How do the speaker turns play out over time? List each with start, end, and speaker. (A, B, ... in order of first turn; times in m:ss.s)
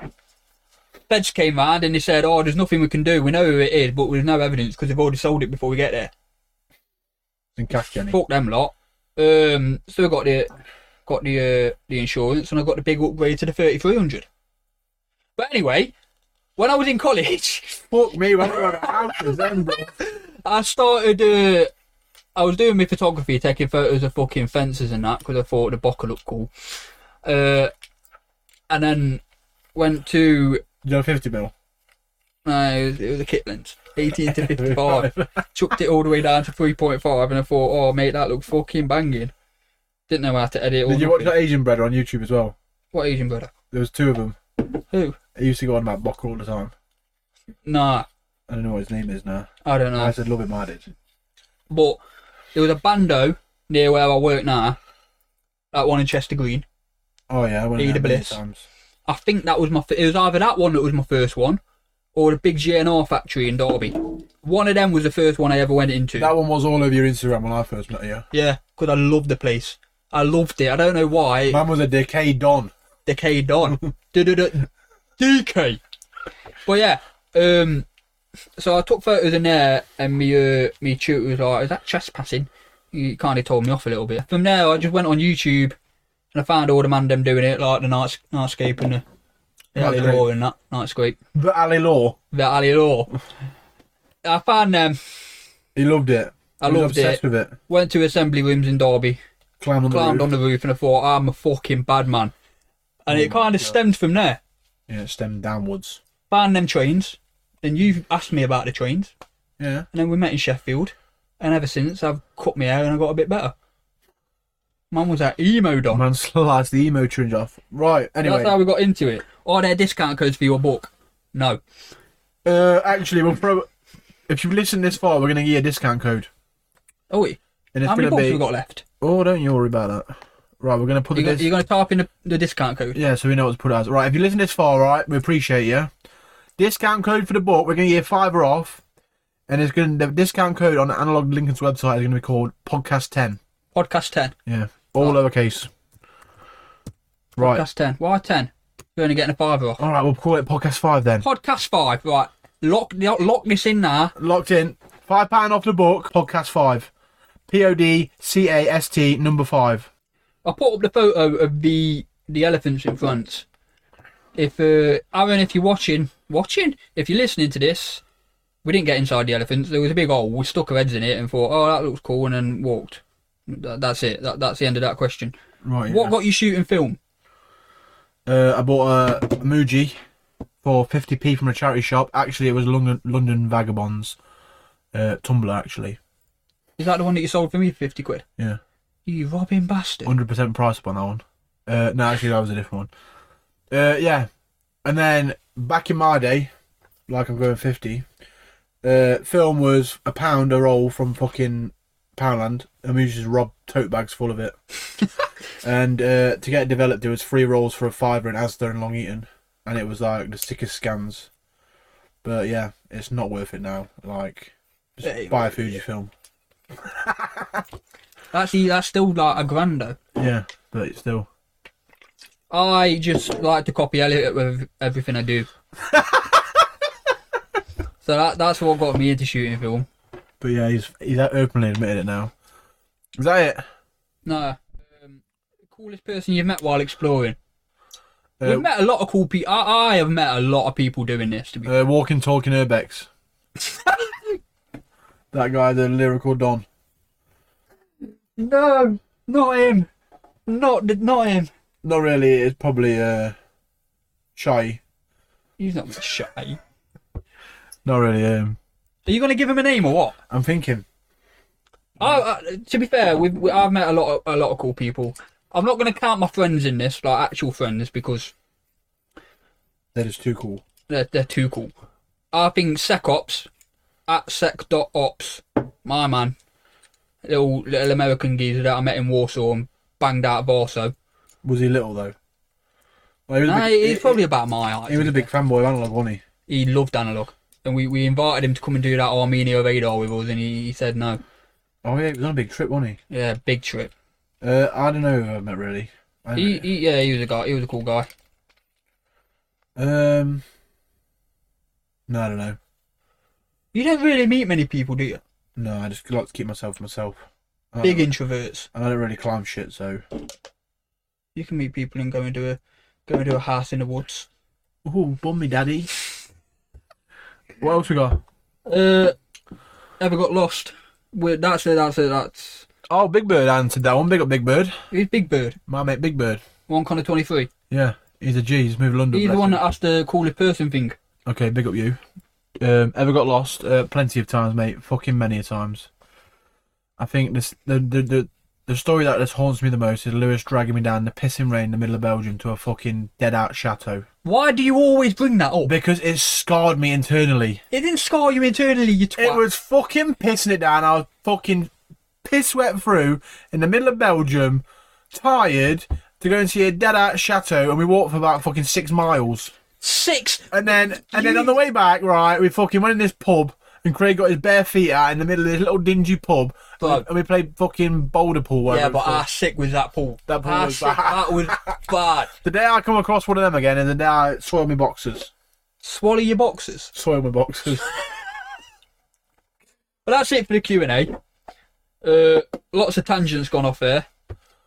0:01.1-0:06.1 A
0:07.6-0:08.2 B
0:08.1-0:10.5 A
0:11.0-0:14.2 A
0:15.4-0:15.9 A
0:16.6-0:17.8 A
0:17.9-0:19.9 B
0:18.7-0:21.7 A
0:22.4-0:26.5 A
0:27.2-0:27.7 A
0:28.7-0:29.2 A
0:29.7-0:30.6 A
0:30.8-0:31.5 B
0:32.4-0:39.3 A
0:34.3-0:35.2 B
0:40.1-0:41.4 A
0:40.9-0:42.5 B
0:42.9-0:43.5 A
0:43.7-0:44.4 B
0:44.9-0:45.2 A
0:45.4-0:46.7 B
0:47.6-0:48.1 A
0:48.5-0:50.9 B
0:49.6-0:50.1 A
0:51.7-0:52.0 A
0:52.5-0:54.8 A
0:55.7-0:56.6 A
0:57.3-0:58.6 B
0:57.8-0:58.4 A
0:59.1-1:01.6 A
1:02.1-1:06.3 A
1:06.2-1:08.2 B
1:08.3-1:11.6 A
1:11.5-1:12.7 B
1:13.0-1:15.8 A
1:16.6-1:17.9 A
1:18.6-1:25.8 A
1:26.3-1:29.0 A
1:29.7-1:31.2 A
1:29.8-1:30.2 B
1:31.4-1:32.2 B
1:32.3-1:33.1 A
1:34.2-1:35.0 A
1:35.7-1:37.6 B
1:36.6-1:39.2 A
1:39.6-1:40.3 B
1:39.9-1:42.3 A
1:43.0-1:44.4 A
1:43.1-1:43.8 B
1:44.9-1:46.0 B
1:46.3-1:49.1 A
1:49.6-1:49.9 B
1:49.9-1:53.5 A
1:54.9-1:56.0 A
1:55.9-1:58.6 B
1:58.2-2:01.6 A
2:02.4-2:03.7 B
2:04.3-2:06.3 B
2:07.1-2:08.8 A
2:07.7-2:08.4 B
2:09.0-2:11.5 B
2:11.1-2:13.0 A
2:12.9-2:15.9 B
2:16.6-2:18.8 B
2:19.5-2:23.4 B
2:23.7-2:24.4 A
2:24.4-2:25.7 B
2:27.4-2:27.6 B
2:27.4-2:29.8 A
2:29.8-2:31.2 B
2:31.2-2:34.1 A
2:34.2-2:36.9 B
2:37.5-2:39.9 B
2:40.4-2:43.4 A
2:44.4-2:48.0 A
2:48.6-2:55.4 A
2:55.6-2:56.1 B
2:55.9-2:57.0 A
2:58.2-3:00.0 B
3:00.6-3:04.2 B
3:04.9-3:06.0 B
3:06.8-3:08.2 A
3:09.0-3:10.1 A
3:10.0-3:12.9 B
3:13.7-3:14.3 B
3:14.8-3:16.5 B
3:17.1-3:18.0 B
3:18.8-3:24.5 B
3:25.6-3:31.3 B
3:32.2-3:36.1 B
3:35.0-3:35.7 A
3:36.8-3:37.6 B
3:38.3-3:40.0 A
3:40.2-3:41.3 B
3:42.5-3:45.5 A
3:45.9-3:46.6 B
3:48.0-3:49.9 A
3:50.4-3:52.3 B
3:53.1-3:53.6 B
3:54.2-3:57.4 A
3:58.4-3:58.7 B
3:58.4-4:01.8 A
4:01.6-4:03.1 B
4:03.6-4:04.4 A
4:05.3-4:06.6 B
4:08.4-4:09.9 A
4:08.5-4:08.9 B
4:10.5-4:11.5 A
4:11.8-4:13.4 B
4:14.4-4:14.8 B
4:15.6-4:16.6 A
4:17.8-4:18.6 B
4:19.0-4:20.2 A
4:20.3-4:20.8 B
4:22.0-4:28.3 A
4:29.9-4:30.6 B
4:30.9-4:31.7 A
4:32.3-4:33.5 A
4:34.1-4:36.4 A
4:37.2-4:40.9 A
4:41.4-4:42.1 B
4:43.3-4:44.2 B
4:43.4-4:45.3 A
4:44.9-4:46.2 B
4:46.5-4:51.2 A
4:51.8-4:53.0 B
4:53.1-4:53.9 A
4:54.4-4:56.6 B
4:56.4-4:58.1 A
4:59.8-5:00.4 B
5:02.1-5:02.6 B
5:03.7-5:05.2 A
5:05.6-5:08.1 B
5:07.8-5:08.7 A
5:08.7-5:10.0 B
5:11.4-5:14.3 A
5:14.8-5:15.9 B
5:17.6-5:18.2 B
5:18.6-5:19.1 A
5:20.0-5:22.6 A
5:22.9-5:24.8 B
5:24.9-5:25.6 A
5:25.7-5:26.4 B
5:26.7-5:27.5 A
5:27.7-5:29.6 B
5:29.1-5:31.0 A
5:31.2-5:32.0 B
5:32.6-5:35.9 B
5:37.0-5:44.0 B
5:44.2-5:45.8 A
5:45.6-5:47.6 B
5:47.7-5:49.4 A
5:49.2-5:51.7 B
5:52.2-5:59.5 B
5:59.8-6:01.5 A
6:00.5-6:09.2 B
6:06.8-6:07.0 A
6:08.7-6:12.3 A
6:10.3-6:11.8 B
6:12.4-6:15.3 B
6:15.8-6:16.9 A
6:16.9-6:17.8 B
6:17.9-6:18.3 A
6:20.0-6:21.1 A
6:22.0-6:24.1 A